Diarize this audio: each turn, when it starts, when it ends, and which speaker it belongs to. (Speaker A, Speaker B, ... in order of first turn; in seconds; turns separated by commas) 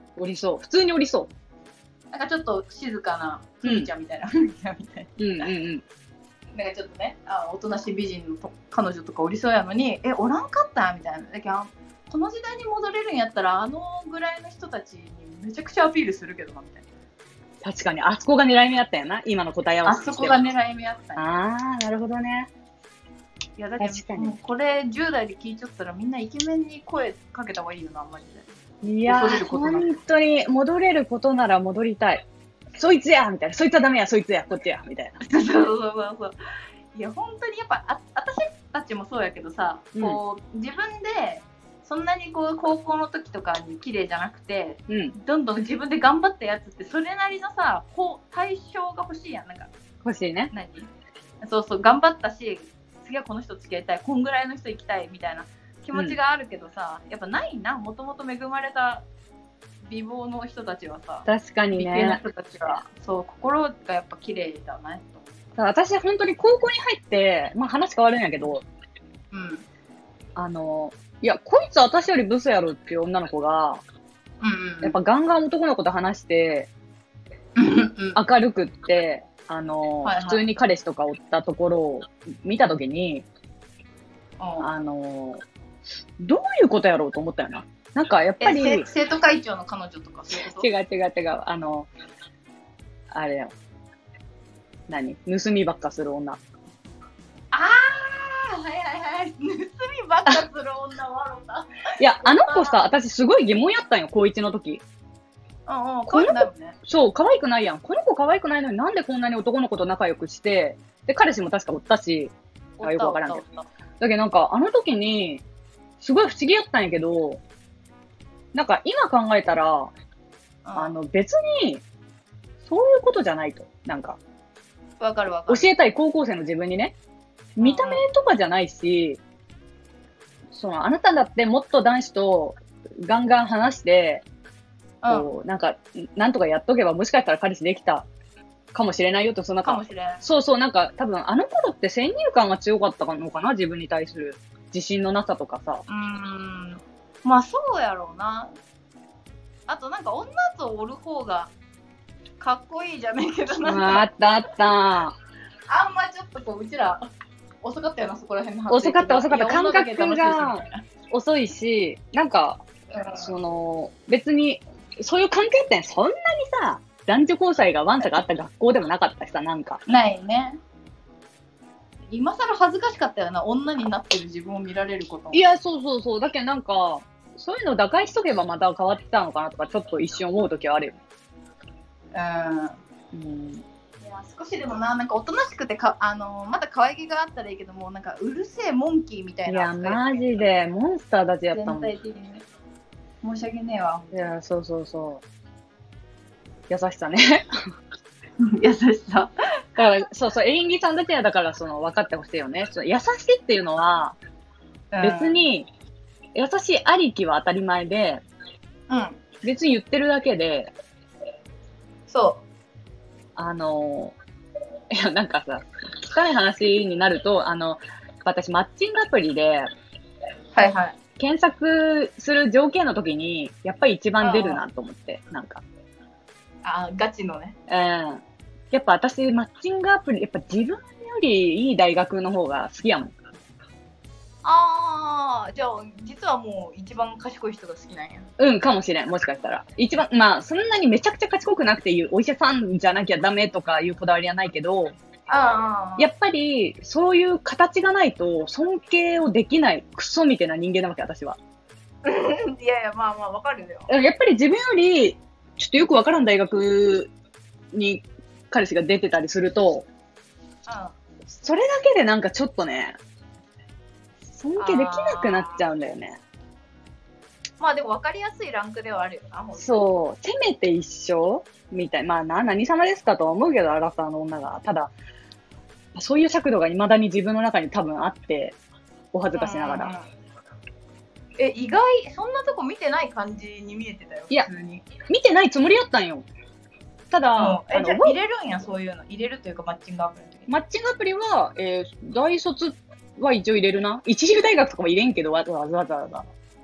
Speaker A: 0.2-1.3, Speaker B: 2.1-5.5, Speaker A: 3.6-3.9, Speaker A: 5.2-5.8, Speaker B: 6.5-16.9, Speaker A: 17.6-20.4, Speaker B: 19.8-21.2, Speaker A: 21.2-22.5, Speaker B: 23.6-28.5, Speaker A: 23.8-24.4, Speaker A: 28.8-35.2, Speaker B: 29.1-29.9, Speaker B: 35.2-36.4, Speaker B: 36.9-49.7, Speaker A: 40.0-40.2, Speaker A: 44.9-45.1, Speaker A: 50.0-50.5, Speaker B: 50.5-50.9, Speaker B: 51.4-59.0, Speaker B: 59.9-65.4, Speaker A: 61.3-62.2, Speaker A: 65.6-68.6, Speaker B: 69.3-69.7, Speaker A: 70.4-73.8, Speaker B: 74.4-75.0, Speaker A: 74.8-76.7, Speaker B: 77.6-78.2, Speaker A: 78.1-83.3, Speaker B: 80.0-80.5, Speaker B: 84.4-84.7, Speaker A: 84.6-85.4, Speaker A: 86.2-88.9, Speaker B: 88.4-90.7, Speaker A: 90.6-91.9, Speaker A: 93.1-93.5, Speaker A: 94.9-96.4, Speaker B: 97.5-102.8, Speaker A: 102.0-104.8, Speaker B: 105.7-106.8, Speaker A: 106.1-113.4, Speaker B: 112.8-113.7, Speaker A: 114.0-115.4, Speaker A: 116.0-117.4, Speaker A: 118.5-119.9, Speaker B: 120.6-121.0, Speaker A: 120.8-121.8, Speaker A: 122.6-124.2, Speaker B: 125.0-125.7, Speaker A: 125.5-127.0, Speaker A: 127.6-129.2, Speaker B: 127.6-128.1, Speaker A: 130.5-134.2, Speaker B: 135.0-135.3, Speaker A: 135.1-138.1, Speaker A: 138.7-145.8, Speaker B: 139.6-140.2, Speaker B: 145.9-148.5, Speaker B: 149.7-151.5, Speaker B: 152.4-154.1, Speaker A: 153.6-155.2, Speaker B: 155.7-157.1, Speaker B: 157.6-160.9, Speaker A: 158.7-162.6, Speaker B: 162.9-163.3, Speaker A: 163.2-169.8, Speaker B: 169.9-170.6, Speaker B: 172.1-175.5, Speaker A: 175.3-181.0, Speaker B: 182.1-182.8, Speaker A: 183.1-183.6, Speaker B: 184.0-190.2, Speaker A: 189.5-191.9, Speaker B: 191.5-192.4, Speaker B: 193.2-194.3, Speaker A: 194.1-195.2, Speaker A: 196.7-197.6, Speaker B: 198.4-199.3, Speaker A: 199.8-204.2, Speaker B: 204.9-205.5, Speaker A: 205.0-205.7, Speaker A: 206.3-208.2, Speaker B: 208.9-209.2, Speaker A: 209.4-210.7, Speaker B: 212.1-212.4, Speaker A: 213.4-214.2, Speaker A: 214.9-219.7, Speaker B: 220.6-221.0, Speaker A: 221.2-225.6, Speaker B: 224.2-224.6, Speaker B: 226.6-227.6, Speaker A: 227.7-233.1, Speaker B: 234.4-238.3, Speaker A: 238.4-244.9, Speaker B: 245.3-246.1, Speaker A: 246.0-251.4, Speaker B: 252.0-253.9, Speaker A: 253.9-257.1, Speaker A: 257.7-259.9, Speaker B: 260.6-260.9, Speaker A: 261.3-263.0, Speaker A: 264.3-266.2, Speaker B: 264.6-265.6, Speaker B: 267.6-269.9, Speaker A: 269.6-274.9, Speaker A: 275.9-278.6, Speaker A: 279.1-279.9, Speaker B: 279.3-280.1, Speaker B: 281.4-284.9, Speaker A: 285.1-286.3, Speaker A: 287.1-288.2, Speaker B: 287.4-290.5, Speaker A: 290.5-296.3